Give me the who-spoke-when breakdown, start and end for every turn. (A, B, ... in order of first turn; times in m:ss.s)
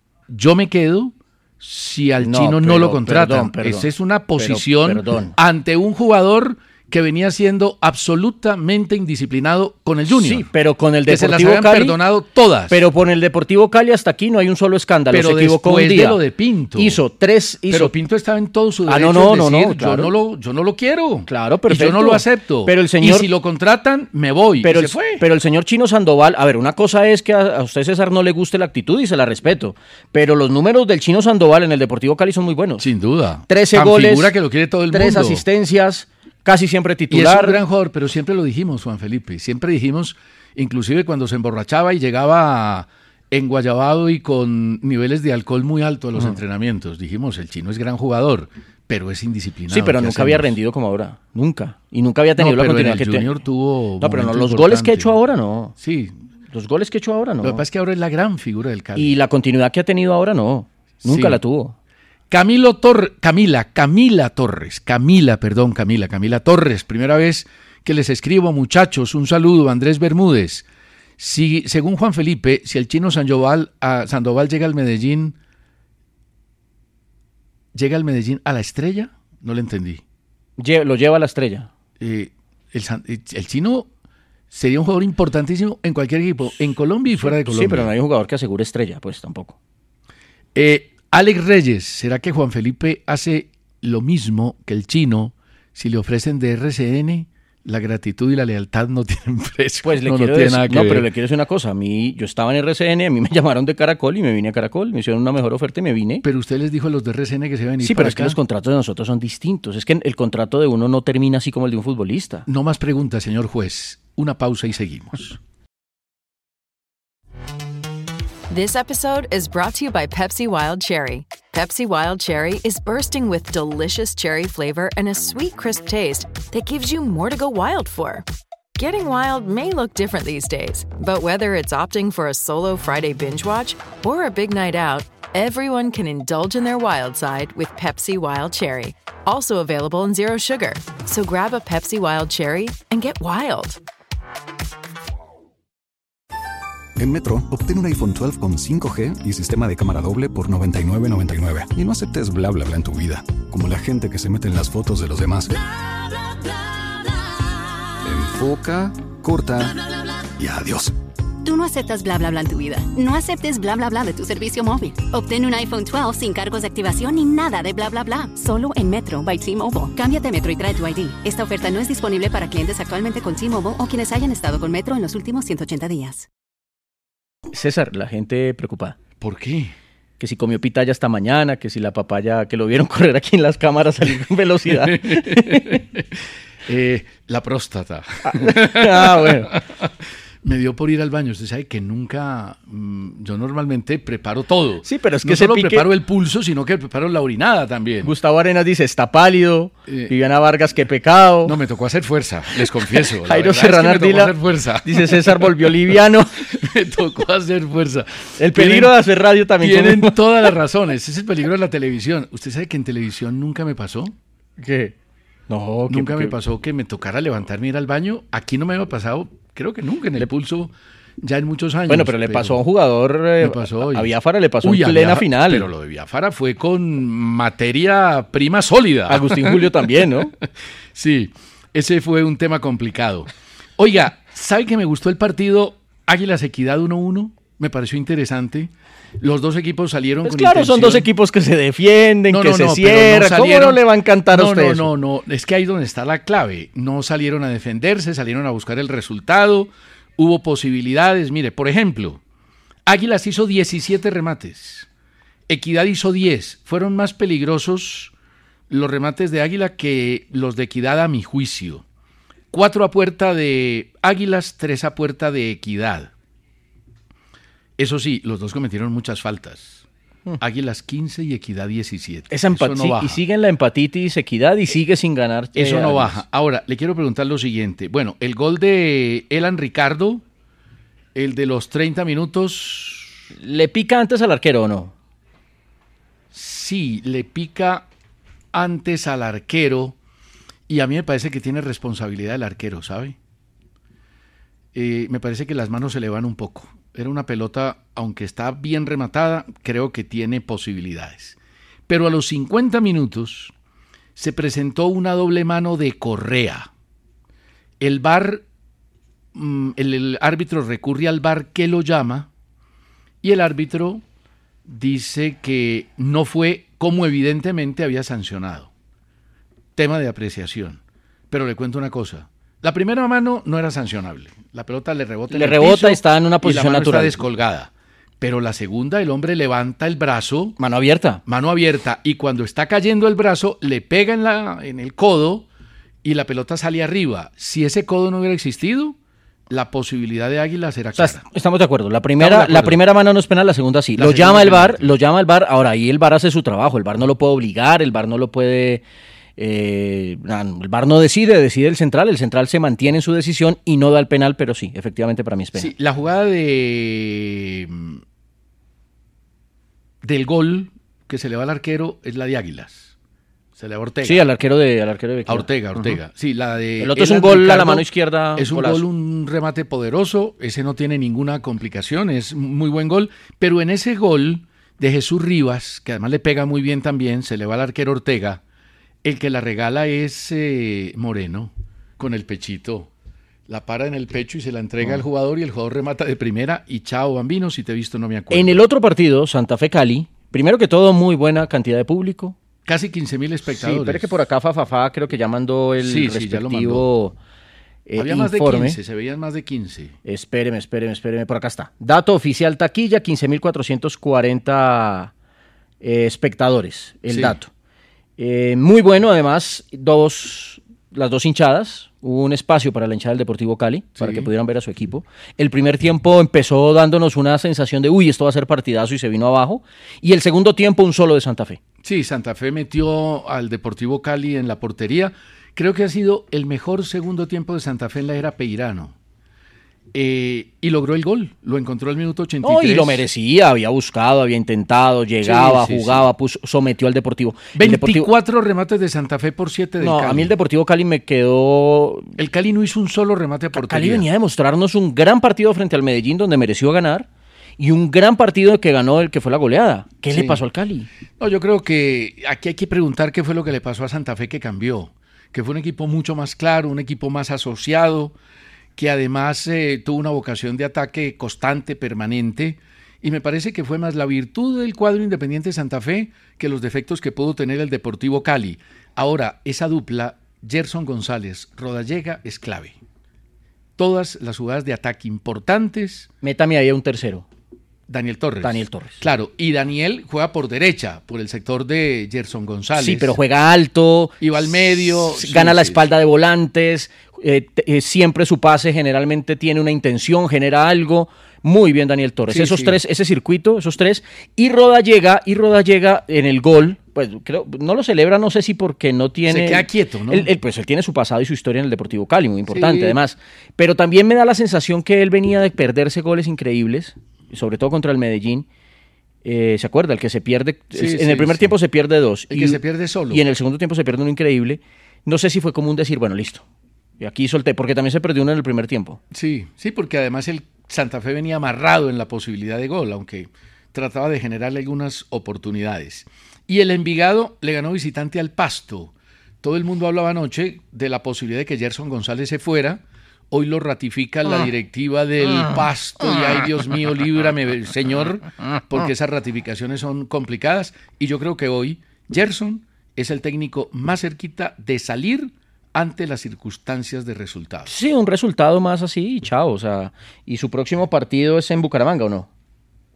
0:00.3-0:10.5 A
0:02.2-0:05.4 B
0:10.1-0:12.0 B
0:11.1-0:12.8 A
0:12.7-0:16.2 B
0:15.1-0:17.0 A
0:16.8-0:17.9 B
0:17.7-0:25.2 A
0:18.9-0:20.1 B
0:21.3-0:23.3 B
0:24.6-0:32.9 B
0:32.8-0:35.4 A
0:33.5-0:34.3 B
0:34.9-0:37.6 B
0:37.1-0:50.6 A
0:49.7-0:53.3 B
0:52.4-0:55.2 A
0:54.0-0:55.7 B
0:55.8-0:56.2 A
0:56.5-0:57.6 B
0:57.4-0:59.2 A
0:59.0-1:01.8 B
1:01.0-1:01.4 A
1:02.3-1:10.7 A
1:11.2-1:15.4 A
1:17.7-1:20.0 A
1:20.6-1:21.7 B
1:22.0-1:23.9 A
1:24.5-1:27.9 A
1:27.2-1:29.6 B
1:30.6-1:41.1 A
1:39.8-1:46.2 B
1:46.2-1:48.4 A
1:47.8-1:52.5 B
1:52.5-1:55.4 A
1:58.5-2:08.2 C
2:08.8-2:23.8 C
2:27.0-2:35.6 D
2:38.0-2:39.8 D
2:40.4-2:40.9 D
2:41.4-2:56.3 E
2:57.5-2:59.0 B
2:59.2-2:59.7 A
3:00.2-3:05.8 B
3:04.7-3:18.1 A
3:08.3-3:09.6 B
3:14.8-3:15.9 B
3:18.0-3:21.6 B
3:19.9-3:20.1 A
3:21.4-3:25.7 A
3:23.1-3:26.4 B
3:26.4-3:29.0 A
3:28.4-3:30.5 B
3:29.6-3:34.2 A
3:34.6-3:34.9 B
3:35.5-3:36.4 B
3:35.9-3:42.6 A
3:41.9-3:45.7 B
3:43.4-3:44.1 A
3:44.6-3:49.9 A
3:49.1-3:50.3 B
3:51.0-4:01.1 A
4:00.2-4:04.9 B
4:02.3-4:12.2 A
4:12.9-4:14.9 A
4:15.5-4:18.1 A
4:18.7-4:21.8 A
4:22.5-4:26.1 A
4:27.8-4:29.9 A
4:30.4-4:33.2 A
4:32.3-4:36.2 B
4:35.6-4:40.2 A
4:41.2-4:43.2 A
4:43.4-4:44.9 B
4:46.3-4:47.9 A
4:48.5-4:50.0 A
4:50.7-4:53.2 A
4:54.7-5:01.4 A
5:01.9-5:03.5 A
5:04.2-5:06.7 A
5:07.8-5:08.4 A
5:09.3-5:12.3 A
5:13.2-5:14.0 A
5:14.6-5:18.7 A
5:19.8-5:30.6 A
5:25.3-5:27.2 B
5:30.6-5:31.2 B
5:31.3-5:35.5 A
5:36.0-5:39.0 A
5:39.5-5:41.2 A
5:41.0-5:48.8 B
5:42.2-5:42.8 A
5:44.0-5:44.9 A
5:49.4-5:55.7 B
5:55.6-5:58.0 A
6:00.0-6:02.9 A
6:03.6-6:04.3 A
6:04.0-6:06.0 B
6:05.3-6:18.4 A
6:06.8-6:08.8 B
6:19.0-6:22.9 A
6:23.5-6:28.6 A
6:28.3-6:32.4 B
6:32.6-6:34.1 A
6:33.5-6:37.2 B
6:35.8-6:36.9 A
6:37.9-6:38.8 B
6:38.0-6:40.0 A
6:40.1-6:45.1 B
6:45.8-6:47.5 B
6:47.1-6:47.4 A
6:48.2-7:01.6 B
6:54.0-6:54.3 A
7:01.8-7:09.0 A
7:09.9-7:13.1 A
7:12.4-7:18.1 B
7:15.2-7:16.1 A
7:17.6-7:20.3 A
7:19.8-7:22.1 B
7:22.2-7:24.1 A
7:23.5-7:27.1 B
7:27.6-7:30.9 B
7:30.1-7:30.4 A
7:31.2-7:38.2 A
7:38.8-7:52.8 A
7:53.8-7:56.1 A
7:56.2-7:57.3 B
7:57.9-8:03.2 A
7:58.4-7:59.0 B
8:02.8-8:28.5 B
8:04.2-8:05.9 A
8:12.3-8:12.8 A
8:19.3-8:20.3 A
8:22.5-8:23.0 A
8:29.2-8:36.4 B
8:30.7-8:31.5 A
8:32.3-8:33.2 A
8:37.0-8:39.0 B
8:39.1-9:07.7 A
9:07.7-9:12.3 B